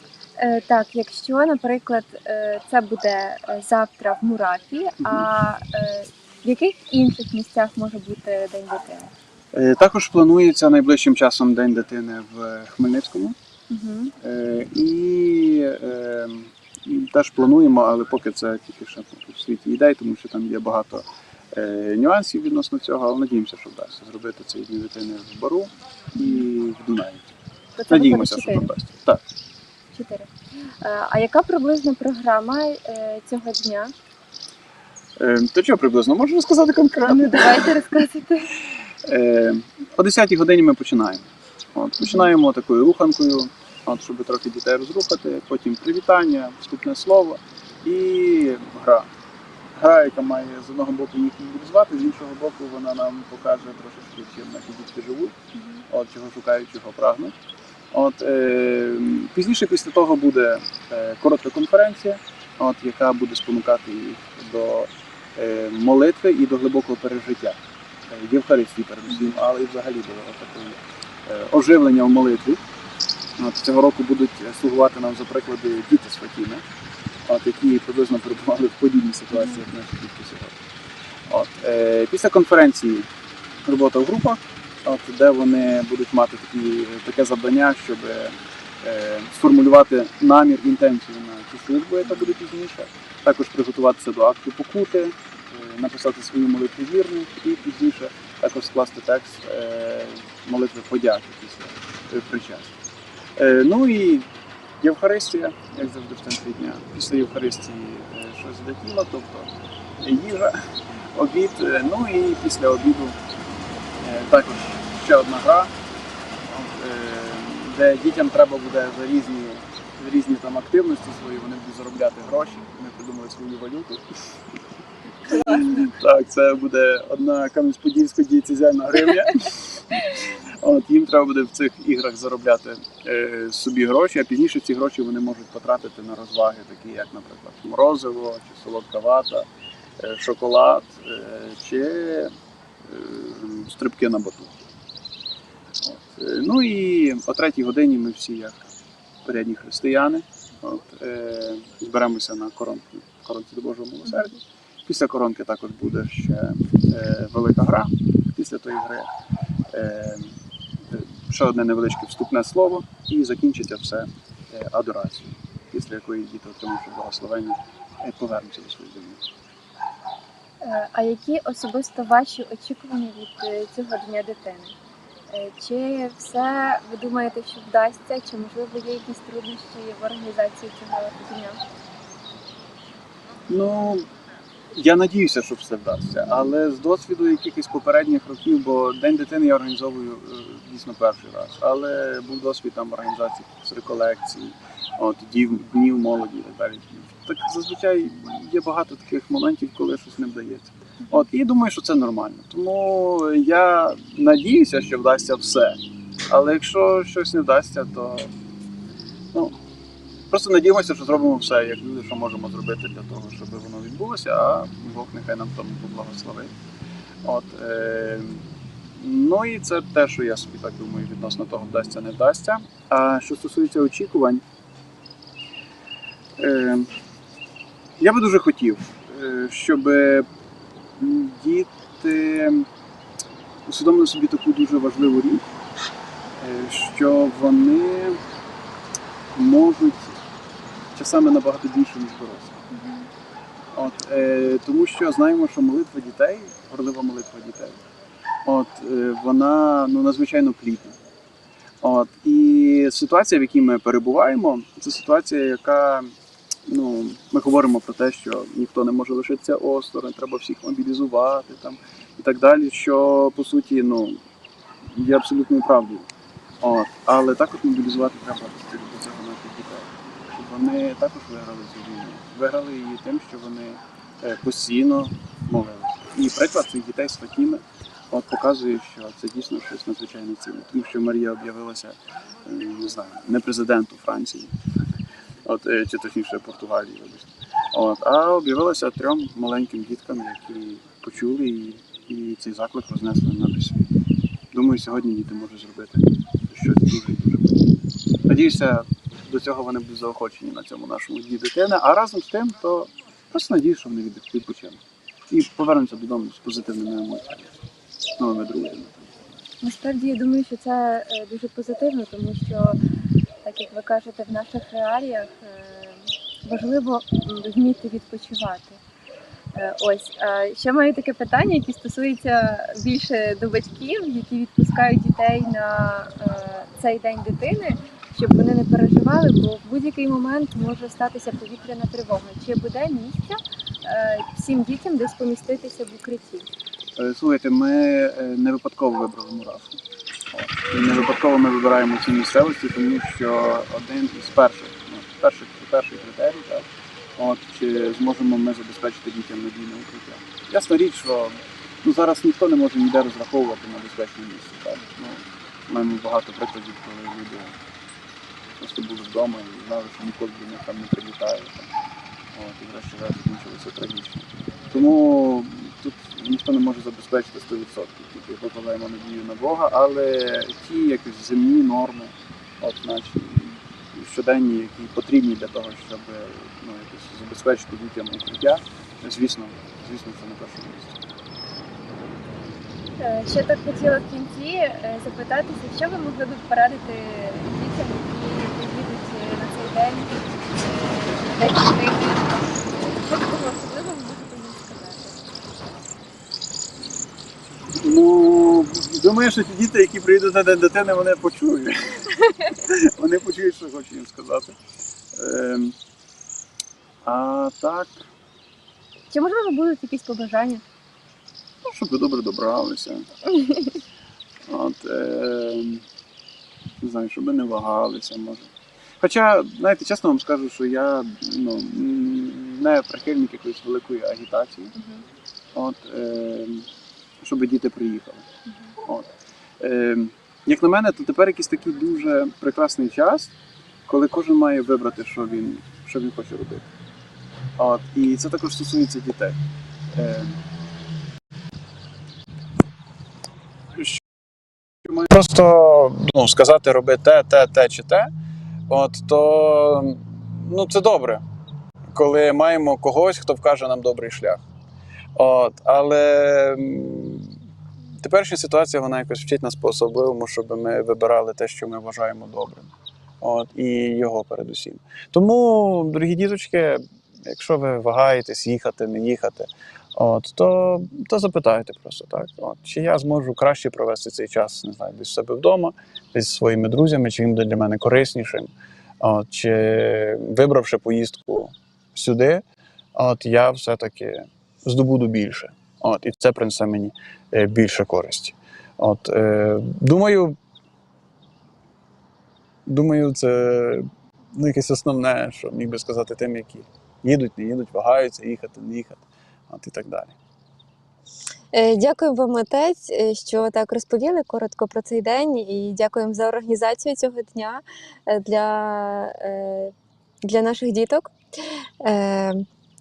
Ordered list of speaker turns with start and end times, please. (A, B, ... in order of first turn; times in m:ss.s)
0:00.4-0:09.1 A
0:09.5-0:13.4 B
0:13.7-0:14.2 A
0:14.2-0:27.2 B
0:26.2-0:26.4 A
0:27.8-0:28.7 A
0:27.9-0:29.2 B
0:29.9-0:30.3 A
0:30.8-0:33.9 A
0:35.2-0:37.8 B
0:37.1-0:38.5 A
0:39.0-0:49.1 B
0:42.0-0:42.3 A
0:49.8-0:55.4 B
0:55.6-0:55.8 A
0:55.9-0:57.3 B
0:57.9-1:07.6 B
1:08.1-1:12.6 B
1:13.4-1:16.6 B
1:17.3-1:20.6 B
1:21.3-1:23.1 B
1:23.6-1:42.8 B
1:43.4-1:44.3 B
1:44.8-1:50.6 B
1:51.1-1:53.2 B
1:54.0-1:55.7 B
1:56.4-2:04.0 B
2:05.2-2:19.5 B
2:20.0-2:22.3 B
2:22.8-2:24.6 B
2:25.8-2:28.7 B
2:29.2-2:39.1 B
2:39.7-2:40.4 B
2:40.9-2:49.2 B
2:50.6-2:54.8 A
2:55.3-3:01.6 A
3:03.5-3:04.1 B
3:04.7-3:28.3 B
3:30.3-3:36.5 B
3:37.2-3:44.4 B
3:46.4-3:46.9 B
3:48.0-3:50.3 B
3:51.0-3:52.7 B
3:53.7-3:55.4 B
3:56.4-3:58.2 B
3:59.3-4:00.2 B
4:00.9-4:02.7 B
4:02.7-4:03.1 A
4:03.7-4:07.8 B
4:08.4-4:11.0 B
4:11.8-4:16.1 B
4:16.7-4:24.2 B
4:24.9-4:26.1 B
4:26.6-4:44.6 B
4:45.4-4:53.9 B
4:54.5-4:57.7 B
4:58.3-5:07.5 B
5:08.2-5:09.2 B
5:09.6-5:12.8 A
5:13.4-5:18.8 A
5:19.5-5:36.5 A
5:37.0-5:39.8 B
5:40.3-5:57.6 B
5:58.6-6:01.7 B
6:02.3-6:21.0 B
6:23.0-6:35.3 A
6:37.8-6:44.6 B
6:45.2-6:45.8 B
6:47.0-6:48.1 B
6:49.1-6:50.6 A
6:51.7-6:53.1 B
6:54.5-6:55.8 B
6:56.8-6:58.5 B
6:59.0-7:04.8 B
7:04.8-7:05.0 A
7:05.6-7:06.7 B
7:07.2-7:08.3 B
7:08.5-7:08.8 A
7:08.8-7:09.1 B
7:09.6-7:13.3 B
7:13.9-7:16.7 B
7:17.6-7:19.4 B
7:19.9-7:20.4 B
7:23.8-7:24.0 B
7:24.8-7:28.1 B
7:28.7-7:31.2 B
7:31.9-7:34.4 B
7:35.2-7:37.4 B
7:38.0-8:02.4 B
8:03.0-8:10.4 B
8:12.7-8:20.2 B
8:21.5-8:29.7 A
8:30.2-8:31.1 A
8:31.8-8:32.5 A